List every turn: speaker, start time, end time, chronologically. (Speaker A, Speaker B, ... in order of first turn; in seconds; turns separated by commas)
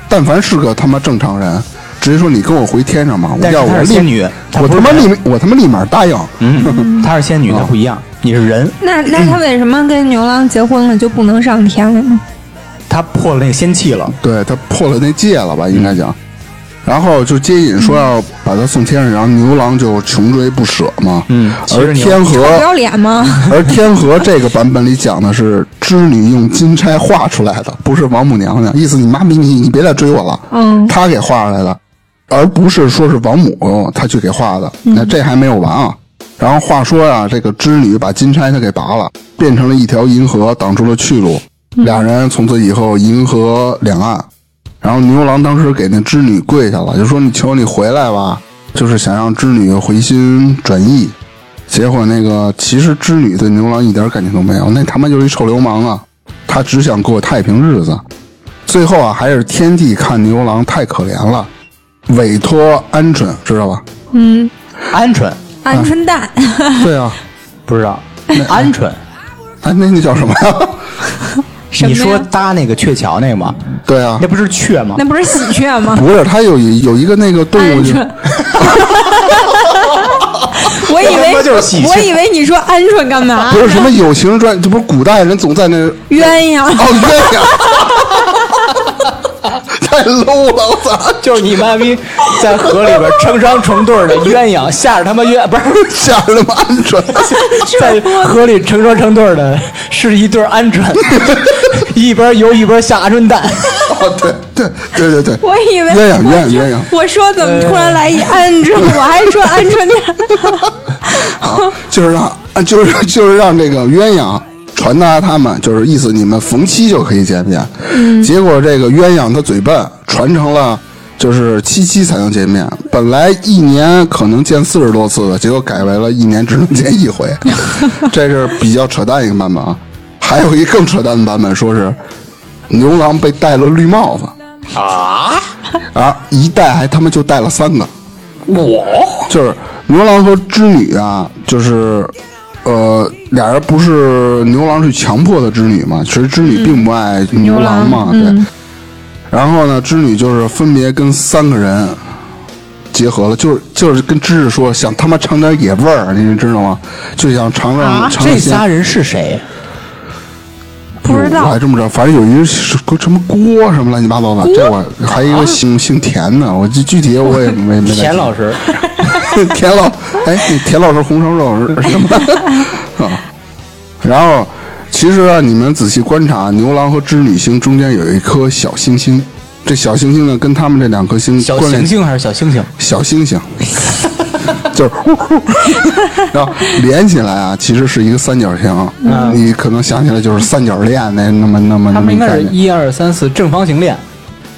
Speaker A: 0.1-6.9, Speaker B: 3.4-5.1, Speaker B: 6.4-8.8, Speaker C: 6.6-7.1, Speaker A: 7.5-7.7, Speaker C: 8.8-12.2, Speaker B: 12.9-14.2, Speaker A: 14.2-16.2, Speaker B: 15.7-16.0, Speaker A: 16.9-22.7, Speaker B: 21.3-22.2, Speaker C: 22.2-23.5, Speaker A: 23.5-44.3, Speaker C: 30.5-30.9, Speaker C: 34.9-35.1, Speaker C: 41.8-42.1, Speaker A: 44.8-51.1, Speaker A: 51.7-58.0, Speaker A: 58.7-61.5, Speaker A: 62.1-63.8, Speaker C: 64.1-64.5, Speaker B: 64.9-65.4, Speaker C: 65.6-66.9, Speaker A: 66.8-67.2, Speaker B: 67.7-69.0, Speaker A: 68.3-68.7, Speaker A: 69.6-70.8, Speaker C: 71.7-72.2, Speaker B: 71.8-73.7, Speaker A: 73.8-74.2, Speaker B: 74.2-75.0, Speaker C: 75.0-76.1, Speaker A: 75.9-78.1, Speaker C: 77.6-83.9, Speaker B: 78.5-79.3, Speaker B: 80.7-82.2, Speaker A: 83.4-88.4, Speaker C: 86.1-87.8, Speaker A: 89.6-91.4, Speaker B: 91.2-95.9, Speaker A: 95.8-97.4, Speaker C: 97.3-98.3, Speaker B: 97.4-103.9, Speaker A: 103.9-106.9, Speaker C: 105.4-111.7, Speaker B: 107.4-108.2, Speaker A: 111.3-132.0, Speaker C: 117.9-118.3, Speaker A: 132.7-134.3, Speaker B: 134.7-135.4, Speaker A: 135.9-137.9, Speaker B: 138.5-139.3, Speaker A: 139.3-148.4, Speaker C: 147.4-148.5, Speaker A: 149.3-152.0, Speaker A: 152.9-158.7, Speaker C: 157.8-158.2, Speaker B: 158.1-159.4, Speaker C: 161.0-161.6, Speaker A: 161.1-168.3, Speaker C: 164.5-164.7, Speaker B: 167.8-168.7, Speaker A: 169.1-173.2, Speaker A: 174.0-181.9, Speaker B: 181.4-182.7, Speaker A: 182.8-183.8, Speaker A: 184.6-192.6, Speaker C: 189.1-189.4, Speaker B: 189.1-189.4, Speaker B: 191.9-194.0